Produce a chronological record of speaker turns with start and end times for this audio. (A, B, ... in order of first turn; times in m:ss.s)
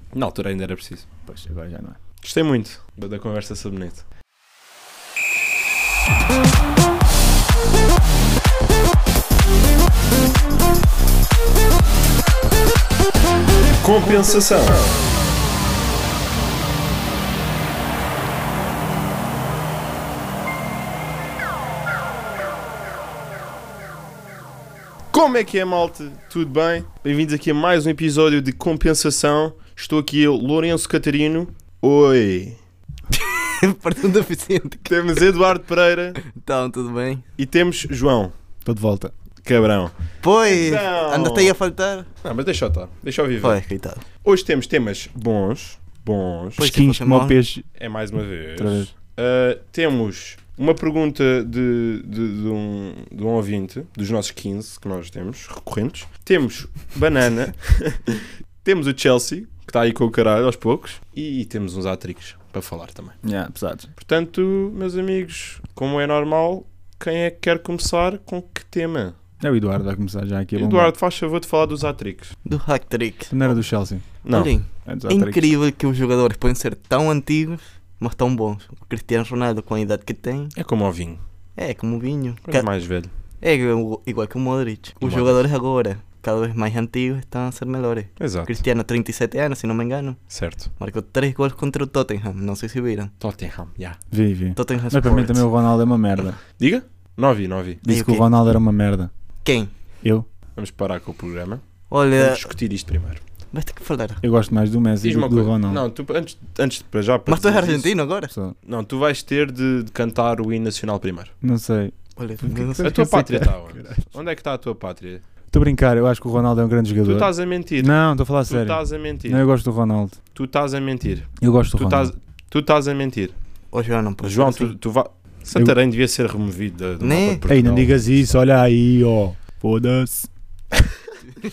0:00.1-0:01.1 A
0:01.2-0:02.0 B
0:02.2-0:04.0 A
0:13.8-0:14.9 A
0:25.1-0:32.6 A
0:33.1-0:35.0 C
0:34.8-0:36.2 A
0:36.2-0:37.2 C
0:37.4-0:38.3 A
0:38.6-0:39.1 B
0:39.4-0:39.9 A
0:40.2-0:42.1 C
0:40.4-0:41.6 A
0:42.2-0:43.6 A
0:43.4-0:44.0 C
0:44.2-0:46.7 A
0:46.6-0:47.4 C
0:46.6-0:47.6 B
0:47.8-1:03.2 A
0:48.6-0:48.9 B
1:03.2-1:03.9 B
1:04.0-1:09.2 A
1:09.4-1:10.9 B
1:10.5-1:12.3 A
1:12.4-1:13.6 C
1:13.3-1:14.2 B
1:14.2-1:14.5 A
1:14.3-1:20.5 C
1:14.8-1:15.5 B
1:20.5-1:21.2 A
1:21.6-1:22.7 C
1:22.4-1:23.1 A
1:23.4-1:33.1 C
1:25.0-1:25.4 A
1:28.2-1:28.6 A
1:30.3-1:30.7 A
1:33.2-1:34.0 A
1:34.1-1:36.4 B
1:34.6-1:35.5 C
1:36.6-1:37.8 A
1:37.8-1:39.1 B
1:37.8-1:38.3 C
1:39.4-1:39.7 C
1:40.0-1:40.3 B
1:40.5-1:43.2 A
1:41.9-1:42.4 C
1:43.5-1:44.2 C
1:44.2-1:45.8 B
1:45.0-1:47.9 A
1:47.3-1:48.3 C
1:48.3-1:48.5 B
1:48.6-1:51.3 A
1:51.4-1:54.1 B
1:52.2-1:53.0 C
1:52.8-1:55.2 A
1:55.5-2:00.2 B
1:57.0-1:59.4 A
2:00.3-2:03.3 A
2:01.4-2:02.1 B
2:03.7-2:04.7 C
2:04.2-2:08.2 A
2:07.0-2:07.4 C
2:07.4-2:10.3 B
2:10.7-2:11.2 A